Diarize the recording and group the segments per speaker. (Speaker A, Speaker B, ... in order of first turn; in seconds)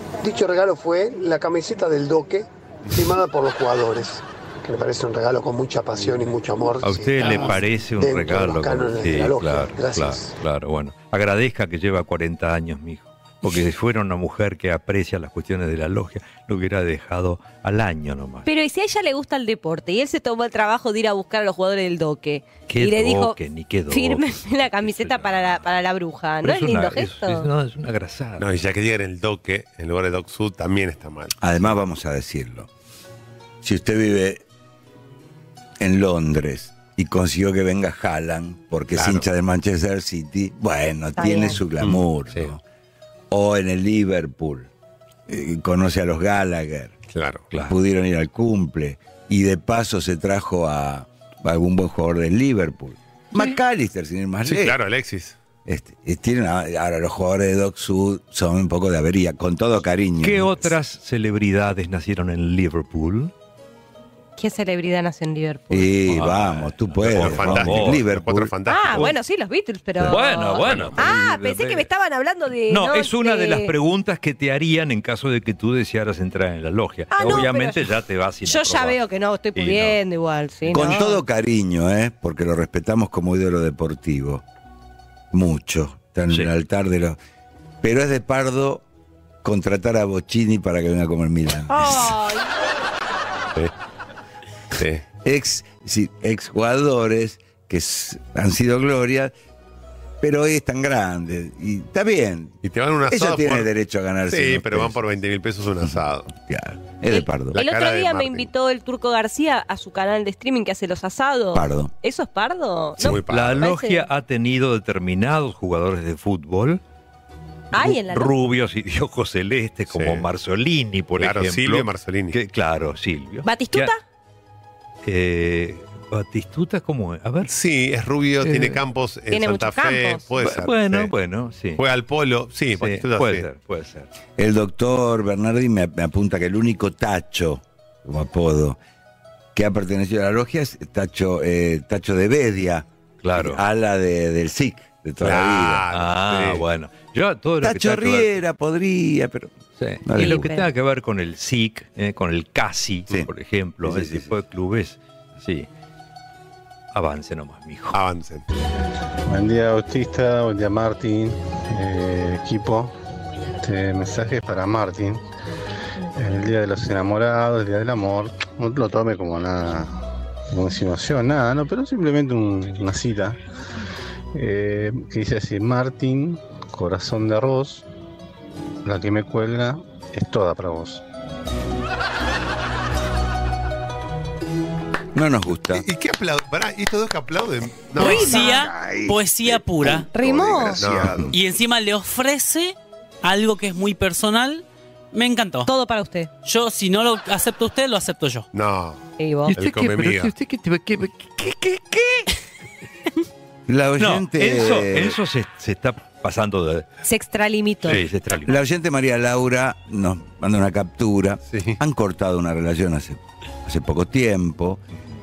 Speaker A: 0.2-10.3
Speaker B: 6.8-18.5, 22.7-25.7, 26.4-28.4, 60.2-63.3, 66.1-68.0, 70.0-71.9, 72.7-79.0, 79.5-80.0, 113.0-116.8, 117.7-123.9, 125.0-127.5, 128.4-128.8, 130.4-131.8, 132.8-134.1, 143.2-143.6, 145.9-148.4, 149.8-155.7, 156.9-158.0, 199.5-202.3, 204.0-206.8, 207.8-208.6
Speaker C: 18.4-23.4, 23.9-27.5, 41.2-41.6, 64.4-65.9, 68.7-73.7, 77.1-77.9, 78.4-81.2, 91.7-92.5, 107.1-114.0, 117.7-118.3, 123.4-124.0, 129.3-130.2, 150.2-150.7, 188.0-188.6, 190.1-190.8, 195.7-196.3, 199.2-199.5, 207.0-208.0
Speaker D: 28.4-31.4, 38.9-39.2, 41.8-42.5, 47.1-47.5, 54.4-55.4, 67.0-69.1, 70.6-71.0, 94.8-95.0, 102.6-103.7, 104.3-106.3, 107.5-108.5, 113.0-113.7, 119.9-120.3, 121.1-122.4, 127.4-131.1, 131.8-133.4, 145.2-146.6, 157.9-158.4, 185.7-188.5, 190.8-191.3, 198.5-199.0, 199.5-200.3, 211.5-211.8
Speaker E: 31.4-32.7, 33.6-34.4, 35.8-42.6, 43.3-44.7, 45.3-47.0, 47.6-54.8, 55.6-60.7, 65.7-68.5, 80.7-84.4, 85.3-87.2, 87.8-88.8, 89.4-92.2, 95.2-99.3, 100.2-102.6, 103.1-105.0, 105.8-107.5, 111.5-111.9, 134.4-138.8, 139.5-145.8, 147.6-150.5, 153.8-154.3, 185.1-185.8, 190.9-191.3, 203.7-205.2, 208.4-214.8
Speaker F: 159.3-162.9, 163.6-165.2, 166.1-169.9, 170.5-173.4, 174.3-177.8, 178.8-181.0
Speaker G: 187.9-190.1, 191.3-195.7, 196.4-198.5